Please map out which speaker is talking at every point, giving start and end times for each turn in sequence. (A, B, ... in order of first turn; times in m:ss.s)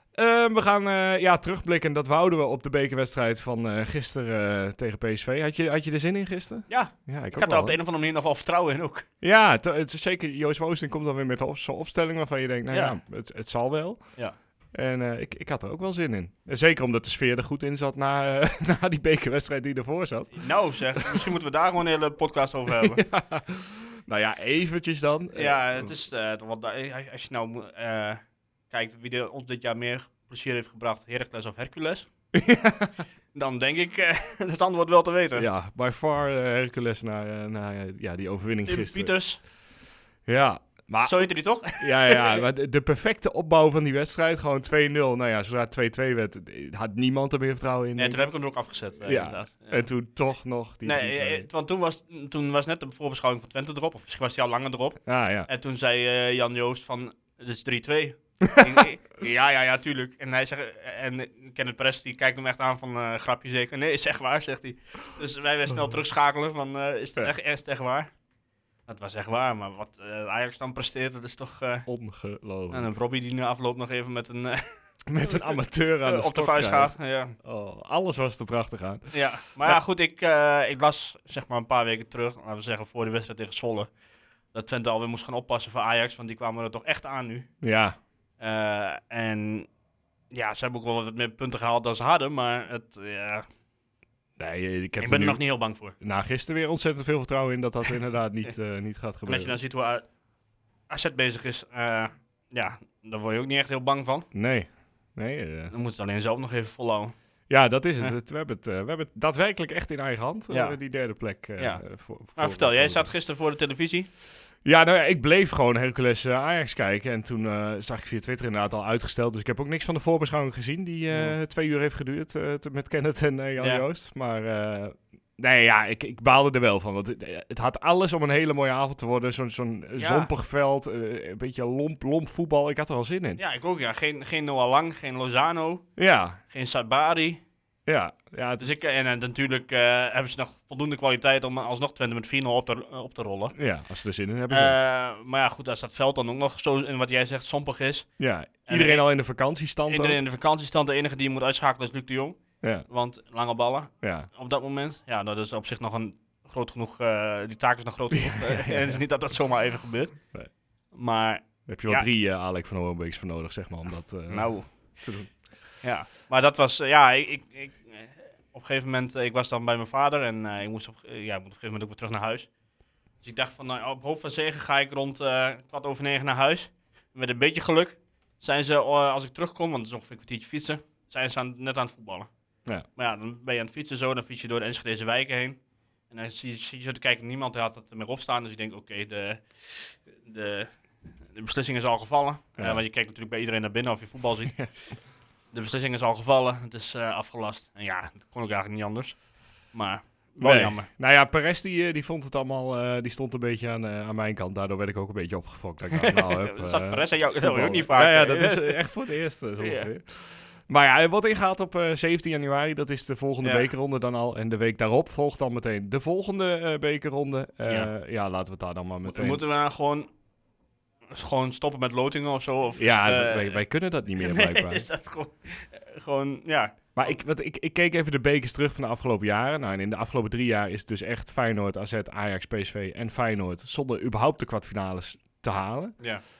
0:00.2-0:07.8 A
0:06.7-0:09.1 B
0:09.2-0:14.2 A
0:12.7-0:13.0 B
0:14.7-0:21.2 A
0:20.3-0:23.0 B
0:22.8-0:25.9 A
0:25.3-0:32.1 B
0:32.3-0:32.9 A
0:33.3-0:35.5 B
0:35.3-0:39.1 A
0:38.7-0:39.4 B
0:40.2-0:48.3 A
0:41.0-0:42.4 B
0:48.0-0:49.8 B
0:49.0-0:51.5 A
0:50.8-1:08.1 B
0:55.0-0:55.5 A
0:58.4-0:58.8 A
1:08.9-1:11.8 B
1:11.9-1:13.0 A
1:12.7-1:14.6 B
1:15.1-1:19.8 A
1:15.2-1:17.3 B
1:19.1-1:23.9 B
1:24.5-1:27.5 B
1:27.6-1:28.0 A
1:28.4-1:29.7 B
1:30.3-1:33.5 B
1:34.4-1:35.4 A
1:35.0-1:35.9 B
1:36.0-1:39.6 A
1:39.3-1:40.0 B
1:40.9-1:44.3 B
1:44.3-1:45.7 A
1:45.7-1:47.1 B
1:47.5-1:53.1 A
1:50.5-1:50.8 B
1:51.6-1:51.8 B
1:52.4-1:54.1 B
1:54.6-2:13.4 A
2:01.1-2:01.4 B
2:03.6-2:03.8 B
2:10.0-2:10.3 B
2:13.4-2:15.8 B
2:16.0-2:16.4 A
2:16.5-2:17.4 B
2:17.9-2:18.8 A
2:18.6-2:23.5 B
2:23.5-2:24.8 A
2:24.5-2:28.1 B
2:28.2-2:30.2 A
2:28.7-2:29.0 B
2:29.9-2:40.2 B
2:34.0-2:34.3 A
2:38.1-2:39.0 A
2:40.9-2:42.1 B
2:41.7-2:45.4 A
2:44.3-2:44.7 B
2:45.8-2:52.5 B
2:53.2-3:02.3 B
3:03.0-3:05.6 B
3:06.1-3:10.7 B
3:11.3-3:14.6 B
3:15.5-3:19.2 B
3:19.7-3:20.9 B
3:20.4-3:39.4 A
3:26.0-3:28.8 B
3:29.6-3:29.9 B
3:33.4-3:33.7 B
3:37.6-3:37.9 B
3:39.1-3:40.1 B
3:41.1-3:43.6 B
3:42.8-3:44.8 A
3:44.2-3:47.1 B
3:47.0-3:56.0 A